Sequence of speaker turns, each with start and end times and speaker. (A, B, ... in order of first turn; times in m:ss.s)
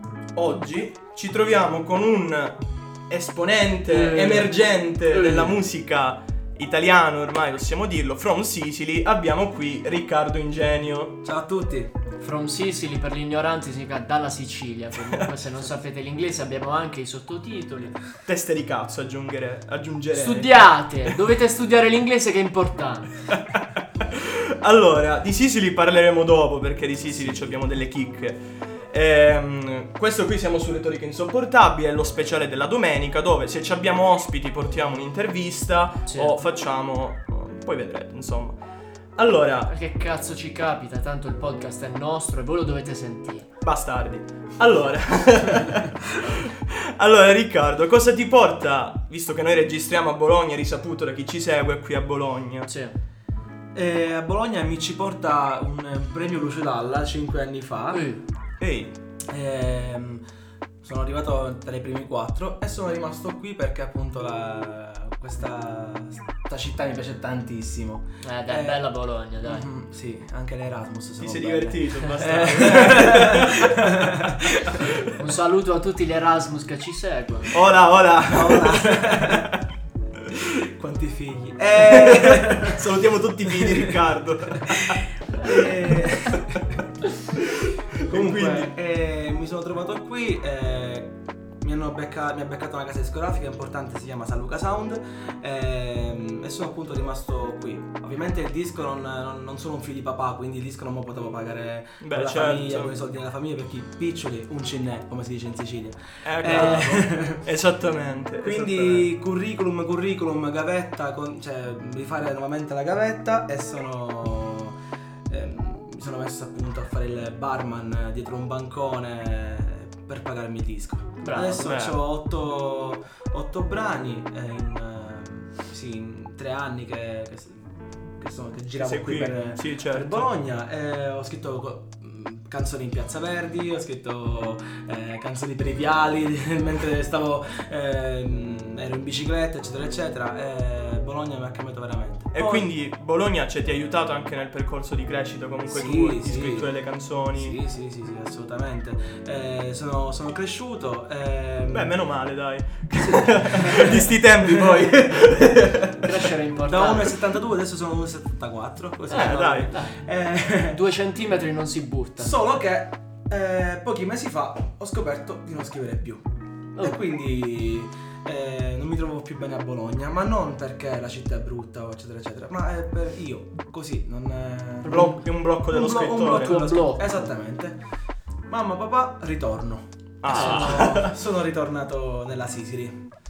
0:00.4-0:11.2 A
0:03.9-0:05.6 B
0:11.2-0:11.9 C
0:12.2-0:18.0 B
0:18.3-0:20.5 A
0:20.1-0:23.1 B
0:23.3-0:38.6 A
0:27.1-0:27.6 B
0:36.1-0:36.4 B
0:39.2-0:39.7 A
0:39.7-0:43.5 B
0:43.6-0:52.7 A
0:52.7-0:53.0 B
0:53.7-0:58.1 C
0:57.9-0:58.2 B
0:58.6-0:58.9 A
0:59.3-1:00.2 C
1:00.8-1:14.8 C
1:08.2-1:09.7 B
1:11.2-1:13.8 A
1:14.7-1:15.0 A
1:15.2-1:17.5 B
1:17.5-1:19.5 A
1:18.2-1:19.5 C
1:20.3-1:22.8 C
1:21.8-1:25.8 A
1:23.5-1:24.0 C
1:25.3-1:26.7 C
1:27.4-1:28.7 A
1:28.1-1:47.4 C
1:42.0-1:42.9 A
1:46.2-1:49.1 A
1:48.4-1:54.8 C
1:55.3-2:22.7 C
2:01.2-2:01.7 B
2:01.5-2:02.0 A
2:08.8-2:10.4 A
2:22.3-2:27.6 A
2:25.7-2:31.9 C
2:31.7-2:36.1 A
2:33.6-2:34.0 C
2:36.0-2:37.2 B
2:36.6-2:40.8 C
2:39.1-2:39.7 A
2:39.1-2:40.0 B
2:40.5-2:42.5 B
2:42.2-2:46.2 C
2:46.8-2:57.8 C
2:54.8-2:55.2 B
2:54.9-2:56.6 A
2:56.2-2:57.3 B
2:58.5-3:03.0 C
3:00.2-3:01.2 A
3:00.3-3:01.0 B